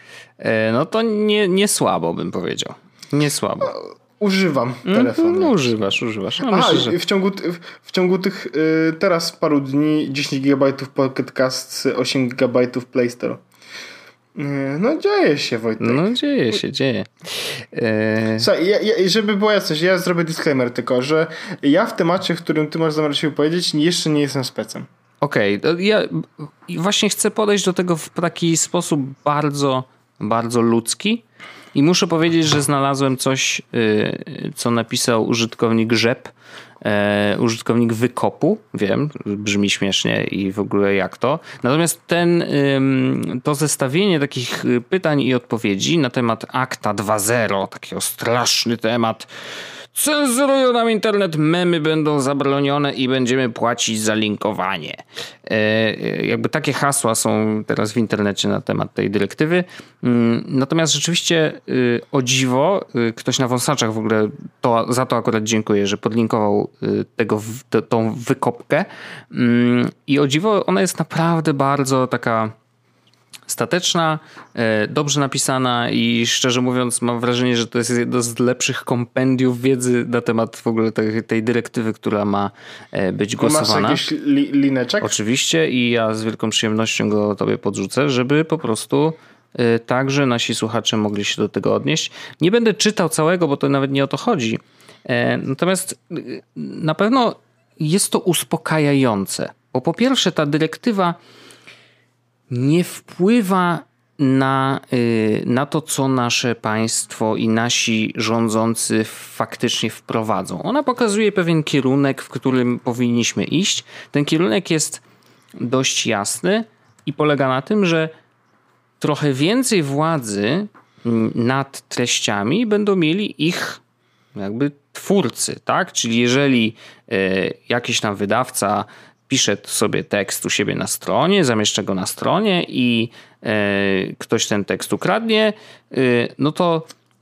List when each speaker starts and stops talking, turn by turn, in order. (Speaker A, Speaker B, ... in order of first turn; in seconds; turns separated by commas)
Speaker A: 0.4-3.7, Speaker B: 3.6-5.7, Speaker A: 4.9-7.0, Speaker B: 6.4-13.4, Speaker B: 14.3-16.1, Speaker A: 15.8-18.5, Speaker B: 18.4-24.9, Speaker A: 25.2-49.3, Speaker A: 49.9-72.5, Speaker A: 73.5-84.0, Speaker B: 83.4-85.2, Speaker A: 85.0-101.2, Speaker A: 102.5-115.0, Speaker A: 115.6-118.1, Speaker A: 119.0-123.8, Speaker A: 124.3-136.9